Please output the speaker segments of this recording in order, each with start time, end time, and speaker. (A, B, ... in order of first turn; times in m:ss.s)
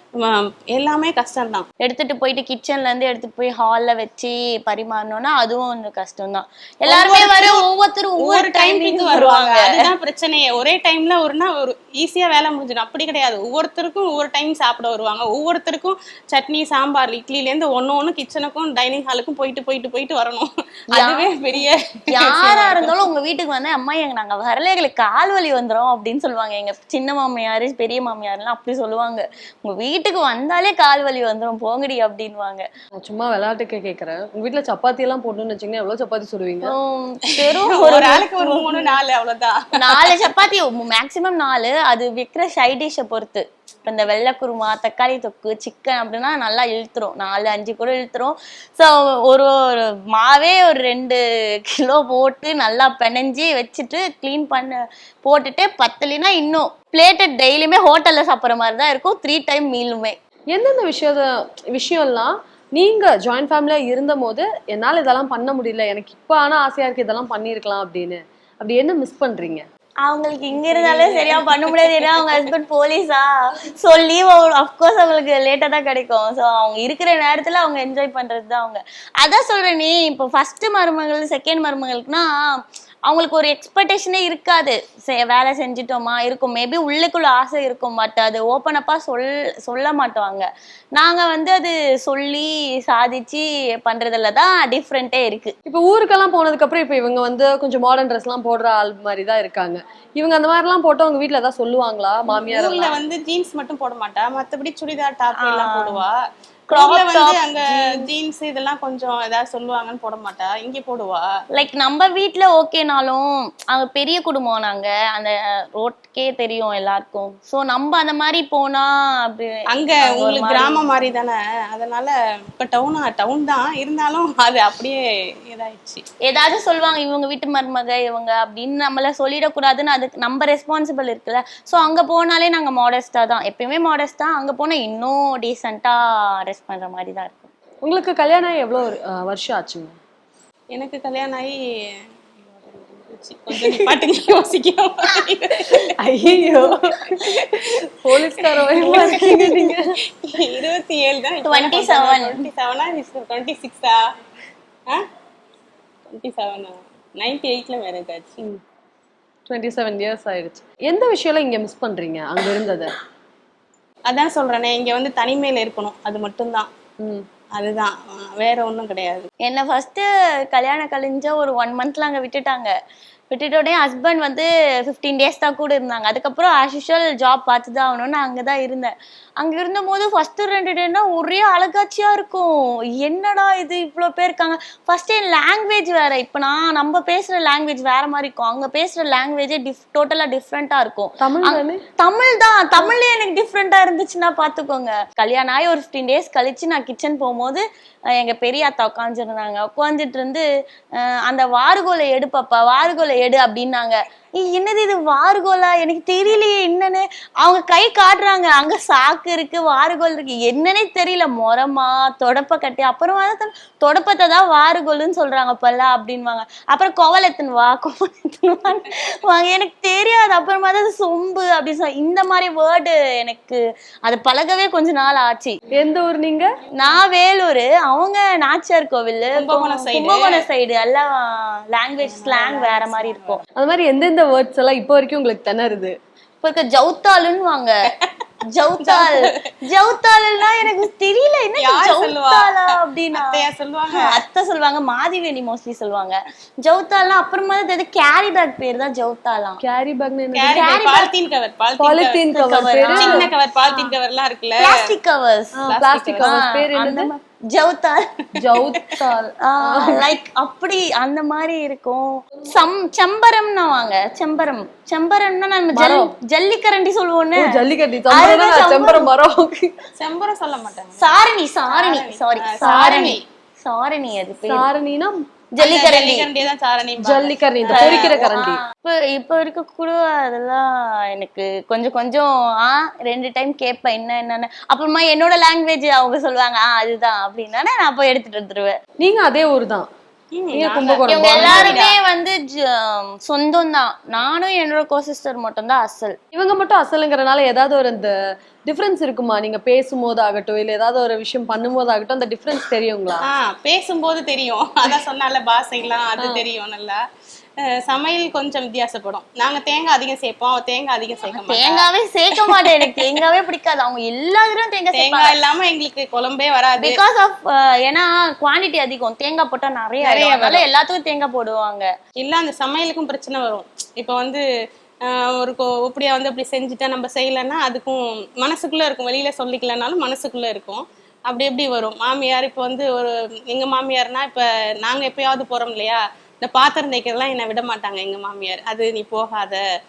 0:00.2-0:01.7 A
0:01.8-0:09.8 B
0:06.9-0:07.6 A
0:08.2-0:22.9 A
0:20.9-0:21.3 B
0:22.1-0:32.6 B
0:33.0-0:36.7 C
0:36.6-0:38.9 B
0:37.8-0:40.2 A
0:39.8-1:00.1 B
1:00.5-1:09.6 C
1:10.1-1:22.3 B
1:10.5-1:12.4 A
1:23.1-1:30.5 B
1:31.0-1:35.5 B
1:35.7-1:43.0 C
1:42.4-1:46.2 A
1:45.4-1:46.0 B
1:46.7-1:48.0 B
1:46.7-1:51.3 A
1:51.5-1:59.5 B
1:59.7-2:06.0 A
2:00.1-2:00.9 B
2:06.2-2:17.5 B
2:17.8-2:19.9 C
2:20.7-2:21.6 A
2:22.5-2:25.9 A
2:26.0-2:27.4 C
2:27.3-2:27.5 A
2:28.0-2:29.9 C
2:28.2-2:34.0 A
2:28.9-2:29.4 B
2:31.4-2:32.4 B
2:36.1-2:38.4 A
2:39.5-2:42.9 C
2:44.1-2:46.7 A
2:47.6-2:49.3 A
2:49.4-2:52.7 B
2:53.3-3:17.6 B
3:11.2-3:11.8 C
3:18.2-3:20.4 B
3:21.3-3:45.6 B
3:45.7-3:46.5 C
3:46.8-3:53.4 B
3:49.4-3:50.4 A
3:52.0-3:53.4 A
3:53.6-3:56.0 C
3:56.4-3:57.7 B
3:58.5-4:03.3 B
3:58.8-3:59.4 A
4:01.6-4:04.1 A
4:04.0-4:09.6 B
4:09.6-4:10.8 C
4:10.4-4:12.2 A
4:10.5-4:11.1 B
4:11.8-4:13.9 C
4:12.3-4:13.3 B
4:12.9-4:14.7 A
4:14.6-4:15.6 B
4:15.6-4:17.1 C
4:15.7-4:16.3 A
4:16.2-4:18.0 B
4:18.4-4:20.1 C
4:18.4-4:18.8 A
4:19.5-4:27.4 B
4:25.7-4:26.1 C
4:27.4-4:29.8 C
4:28.1-4:29.1 B
4:30.0-4:31.1 A
4:31.0-4:34.7 B
4:31.7-4:33.2 A
4:34.5-4:35.2 C
4:35.6-4:36.3 B
4:35.6-4:38.2 A
4:37.0-4:38.6 C
4:37.7-4:48.7 B
4:49.0-4:49.9 C
4:50.4-4:52.0 A
4:50.5-4:51.8 C
4:51.1-4:56.2 B
4:56.3-4:58.1 C
4:58.7-5:03.2 C
5:03.2-5:07.0 A
5:06.2-5:06.4 B
5:07.6-5:11.8 A
5:11.4-5:15.3 B
5:12.4-5:12.9 A
5:14.9-5:17.0 A
5:16.8-5:21.9 B
5:20.0-5:20.7 A
5:22.2-5:24.4 A
5:25.1-5:39.6 A